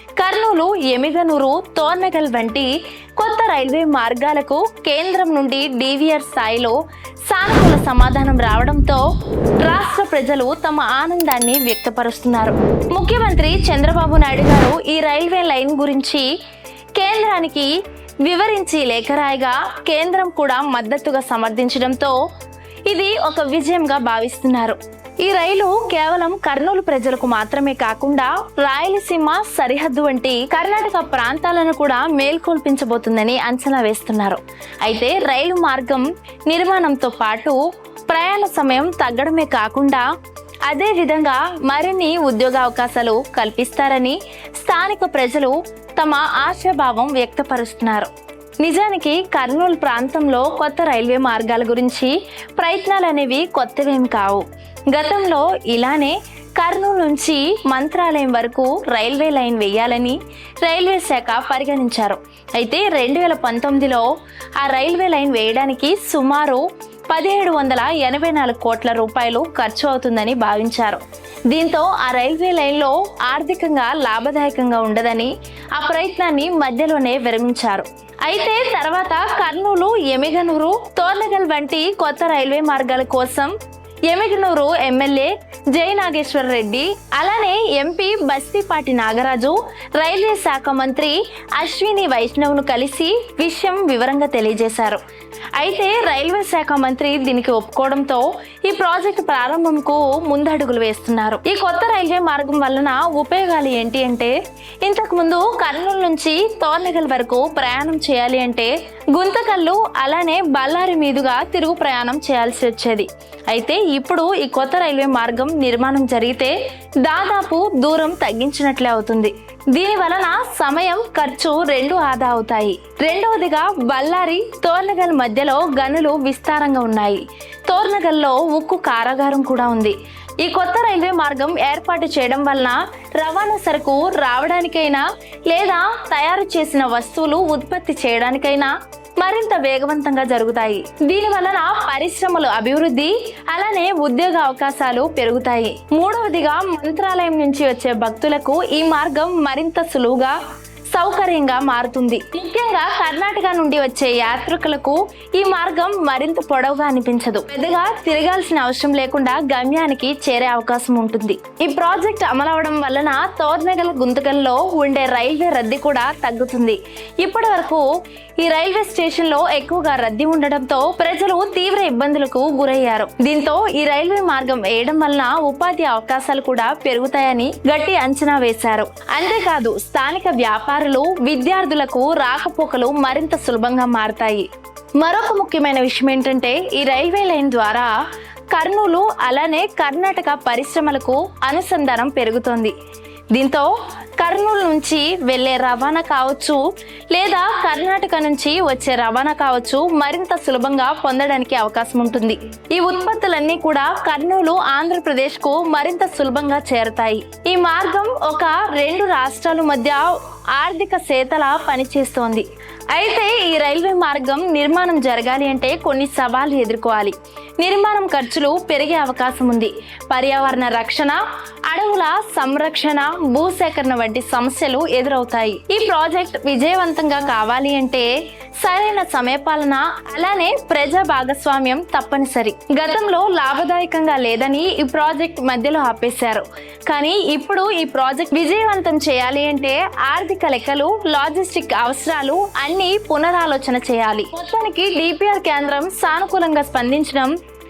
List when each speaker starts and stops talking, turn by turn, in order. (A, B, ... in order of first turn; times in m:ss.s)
0:00.2-0:09.0 A
0:09.6-0:16.3 A
0:17.0-0:17.7 A
0:18.2-0:22.2 A
0:22.9-0:40.1 A
0:40.7-0:48.1 A
0:48.6-1:23.5 A
1:24.1-1:35.0 A
1:35.6-2:30.4 A
2:30.9-2:47.9 A
2:48.4-3:04.5 A
3:05.0-3:07.9 A
3:08.5-3:12.7 A
3:13.3-3:16.6 A
3:17.1-4:07.3 A